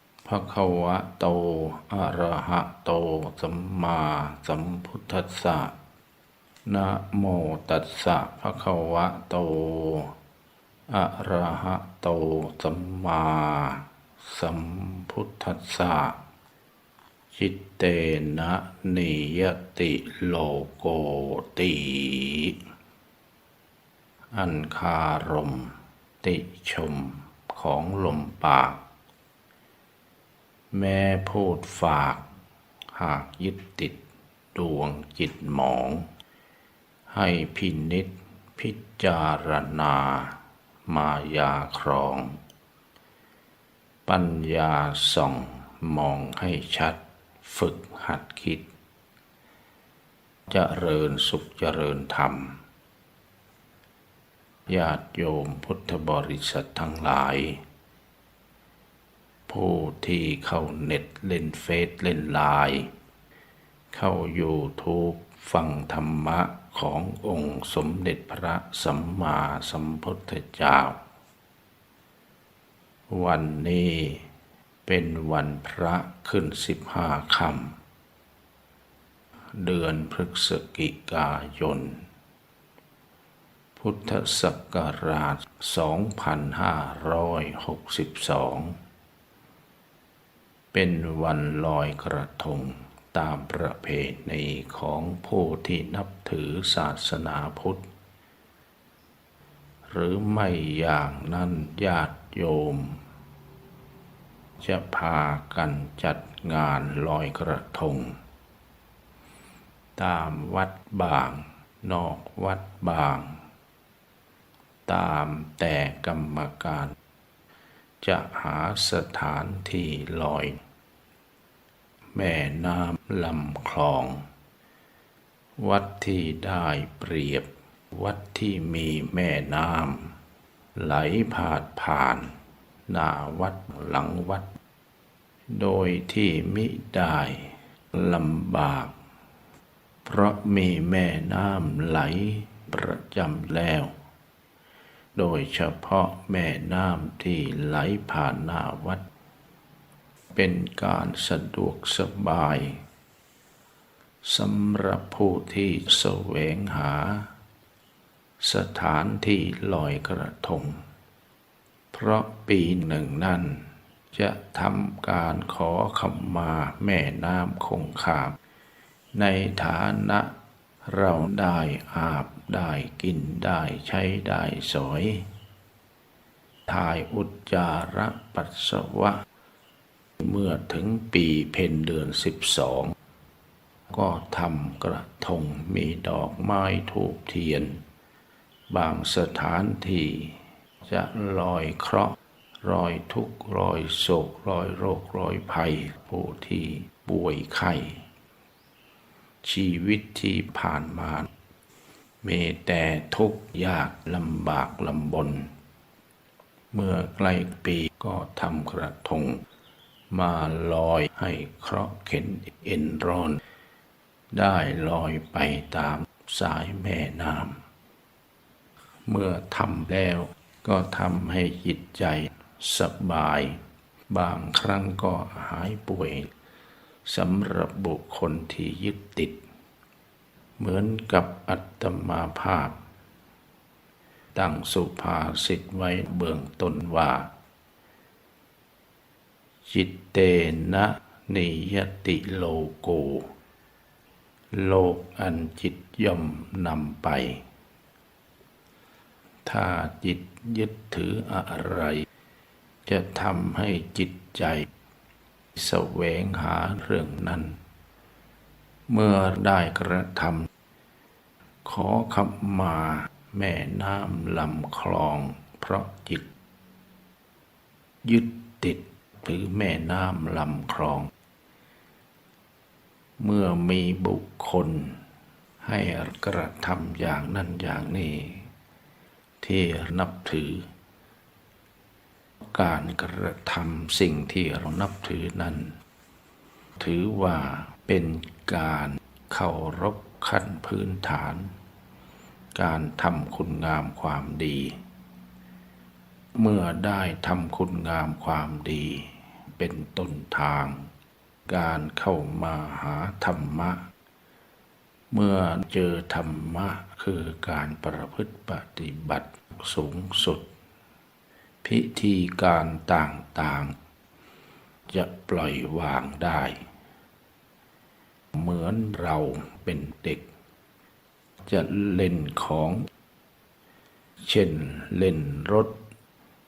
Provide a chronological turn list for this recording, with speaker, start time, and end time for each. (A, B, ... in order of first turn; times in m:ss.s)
0:00.2-0:05.7 A
0:06.6-0:10.2 A
0:10.9-0:16.2 A
0:17.3-0:22.6 A
0:24.3-0:28.8 A
0:30.7-0:32.2 A
0:32.9-0:34.0 A
0:34.5-0:36.1 A
0:37.1-0:42.4 A
0:44.0-0:48.7 A
0:50.5-0:52.6 A
0:54.7-0:57.6 A
0:59.5-1:02.9 A
1:03.9-1:11.0 A
1:13.1-1:14.3 A
1:14.8-1:17.8 A
1:19.5-1:22.0 A
1:23.8-1:28.8 A
1:30.7-1:37.9 A
1:39.9-1:43.0 A
1:44.6-1:48.2 A
1:50.0-1:53.4 A
1:54.9-1:57.0 A
1:58.0-2:00.6 A
2:02.1-2:04.3 A
2:05.6-2:10.2 A
2:10.7-2:12.3 A
2:12.9-2:14.5 A
2:15.5-2:18.9 A
2:20.0-2:23.9 A
2:25.1-2:29.0 A
2:30.3-2:32.8 A
2:34.2-2:37.3 A
2:38.4-2:40.8 A
2:41.9-2:48.4 A
2:49.1-2:50.3 A
2:50.8-2:55.3 A
2:56.7-2:59.2 A
3:00.2-3:02.9 A
3:03.9-3:07.8 A
3:08.7-3:18.0 A
3:19.4-3:21.3 A
3:22.2-3:25.5 A
3:26.7-3:29.4 A
3:30.1-3:33.4 A
3:34.3-3:37.6 A
3:39.0-3:46.3 A
3:47.0-3:49.4 A
3:50.6-3:52.8 A
3:54.3-3:57.3 A
3:59.6-4:03.3 A
4:04.5-4:07.4 A
4:09.4-4:12.1 A
4:12.8-4:14.7 A
4:15.5-4:17.6 A
4:18.9-4:20.5 A
4:21.6-4:26.3 A
4:28.0-4:31.1 A
4:33.2-4:35.0 A
4:35.6-4:38.5 A
4:39.4-4:40.7 A
4:42.4-4:45.8 A
4:46.8-4:51.5 A
4:52.5-4:54.8 A
4:56.3-5:00.9 A
5:01.4-5:03.8 A
5:05.1-5:10.5 A
5:11.6-5:13.7 A
5:14.9-5:16.6 A
5:18.3-5:20.3 A
5:21.4-5:22.9 A
5:24.2-5:25.8 A